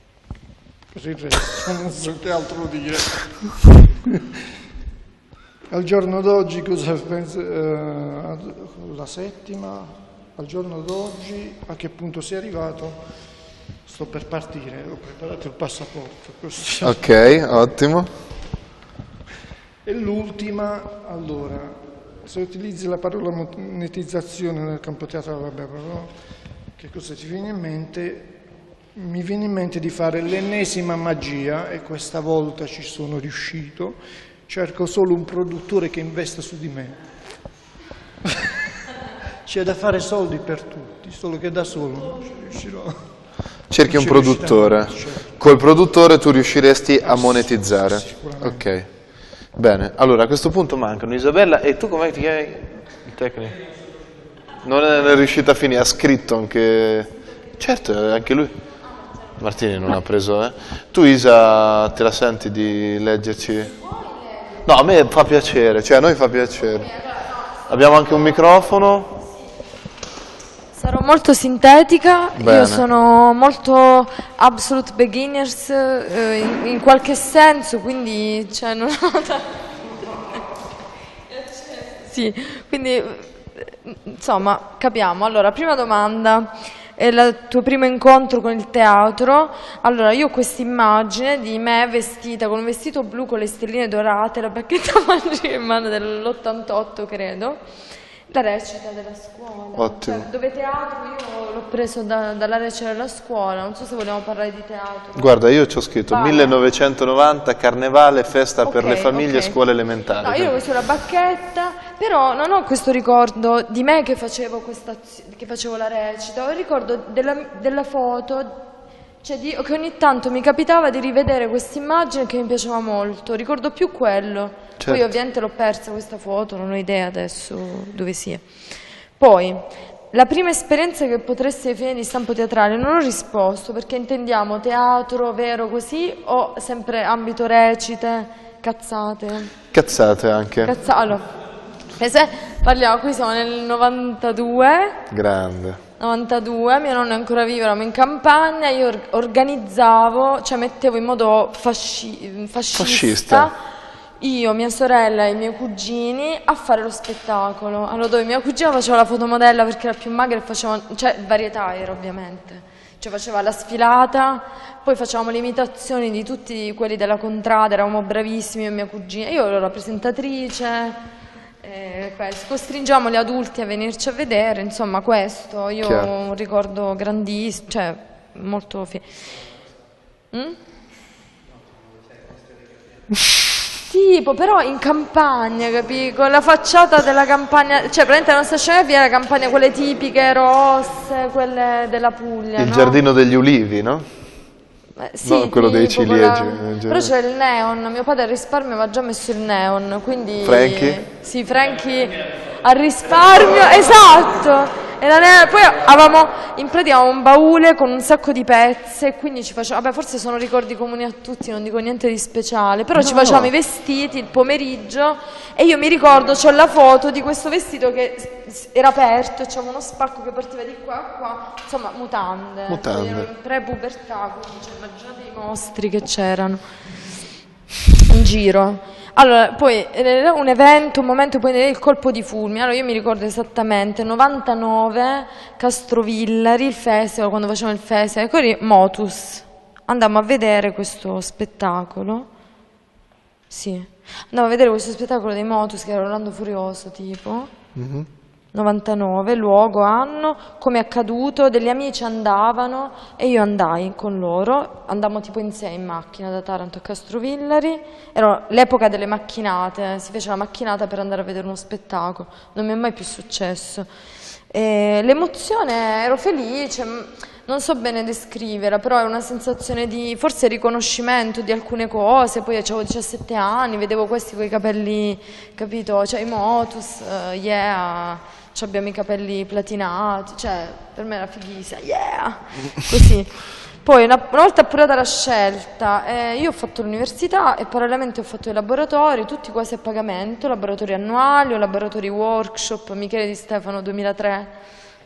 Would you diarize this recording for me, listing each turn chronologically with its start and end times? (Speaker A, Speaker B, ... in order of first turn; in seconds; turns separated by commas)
Speaker A: 0.9-4.2, Speaker A: 5.7-13.0, Speaker A: 13.8-17.1, Speaker B: 16.8-18.1, Speaker A: 19.8-26.1, Speaker A: 26.8-28.4, Speaker A: 28.9-37.0, Speaker A: 38.2-38.5, Speaker A: 39.4-43.0, Speaker B: 43.7-48.9, Speaker A: 43.8-45.4, Speaker A: 47.0-48.6, Speaker B: 49.5-53.6, Speaker B: 54.6-58.5, Speaker B: 59.4-63.7, Speaker C: 63.8-64.5, Speaker B: 64.6-66.9, Speaker B: 67.7-69.2, Speaker C: 70.7-79.6, Speaker B: 72.4-72.8, Speaker C: 81.8-97.6, Speaker C: 98.3-105.3, Speaker B: 99.7-100.3, Speaker B: 105.2-110.6, Speaker C: 106.1-106.6, Speaker C: 108.6-109.5, Speaker C: 110.2-118.5, Speaker C: 119.2-128.4, Speaker B: 124.8-125.1, Speaker C: 129.2-139.5, Speaker B: 139.7-140.7, Speaker C: 140.6-141.2, Speaker C: 141.9-145.0, Speaker B: 145.1-145.8, Speaker C: 146.0-153.6, Speaker B: 152.7-153.5, Speaker C: 154.2-171.0, Speaker C: 171.6-179.1, Speaker B: 175.8-176.1, Speaker C: 180.3-180.6, Speaker C: 183.9-193.0, Speaker B: 192.6-194.1, Speaker C: 195.0-226.6, Speaker B: 195.2-197.1, Speaker B: 200.4-201.0, Speaker B: 212.9-213.5, Speaker B: 222.7-223.3, Speaker C: 228.0-242.3, Speaker C: 243.5-247.5, Speaker B: 247.8-248.1, Speaker C: 248.5-263.9, Speaker C: 264.5-294.6